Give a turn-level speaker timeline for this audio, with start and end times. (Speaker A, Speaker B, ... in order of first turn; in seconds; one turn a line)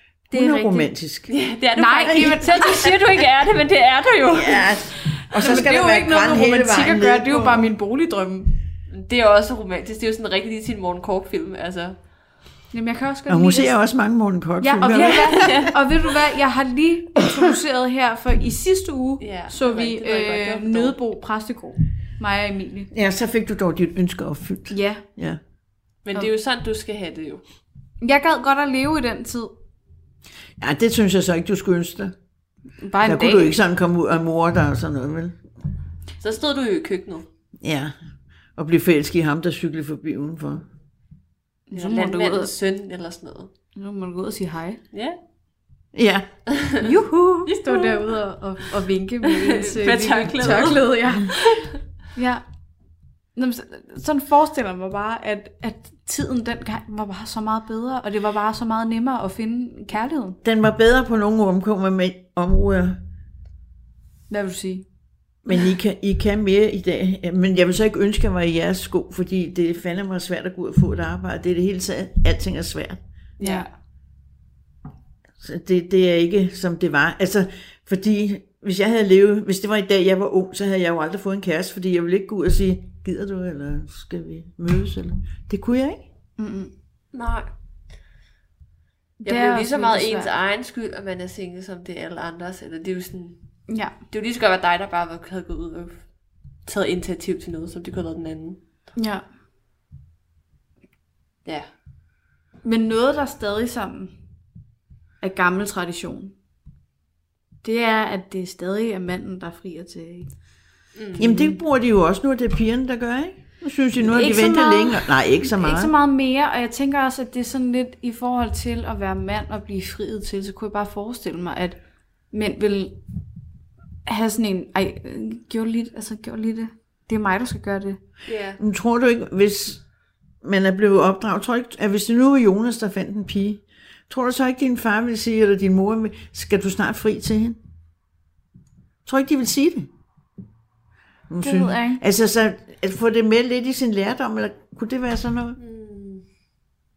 Speaker A: 0.3-1.3
Speaker B: 0.3-0.9
Speaker C: 1.3-4.7
Speaker B: 1.8-3.0
Speaker A: 4.3-7.7
Speaker B: 5.4-8.5
Speaker C: 8.9-11.9
Speaker B: 12.7-13.7
Speaker A: 13.3-15.6
Speaker B: 14.6-22.9
Speaker C: 15.3-15.7
Speaker C: 19.2-20.9
Speaker A: 22.9-25.4
Speaker B: 24.7-25.0
Speaker C: 26.1-27.4
Speaker B: 28.0-29.6
Speaker A: 30.6-32.1
Speaker B: 32.8-33.5
Speaker A: 33.0-35.4
Speaker C: 36.2-37.3
Speaker A: 37.6-37.9
Speaker A: 38.6-40.7
Speaker B: 41.7-42.5
Speaker C: 41.8-43.5
Speaker B: 43.7-44.8
Speaker C: 44.9-45.2
Speaker A: 45.9-46.3
Speaker C: 46.5-46.8
Speaker B: 46.8-51.3
Speaker C: 47.5-48.1
Speaker C: 49.2-51.7
Speaker B: 52.2-52.4
Speaker B: 53.3-60.4
Speaker A: 60.4-63.0
Speaker B: 64.3-64.8
Speaker A: 65.4-73.0
Speaker C: 73.4-73.6
Speaker B: 73.4-73.7
Speaker A: 75.4-86.0
Speaker B: 86.4-86.7
Speaker C: 87.1-87.5
Speaker B: 89.2-90.3
Speaker C: 89.2-93.4
Speaker B: 93.7-93.9
Speaker C: 94.1-96.0
Speaker C: 96.7-98.6
Speaker B: 99.0-99.2
Speaker B: 102.6-104.1
Speaker B: 105.2-106.3
Speaker B: 107.6-110.3
Speaker C: 111.0-111.3
Speaker A: 111.2-115.9
Speaker B: 111.2-111.5
Speaker B: 114.0-121.8
Speaker B: 122.3-123.0
Speaker B: 124.0-128.0
Speaker C: 128.3-128.6
Speaker A: 128.6-129.8
Speaker A: 130.4-137.6
Speaker A: 139.1-139.9
Speaker A: 141.3-145.6
Speaker B: 141.4-142.0
Speaker C: 145.6-146.2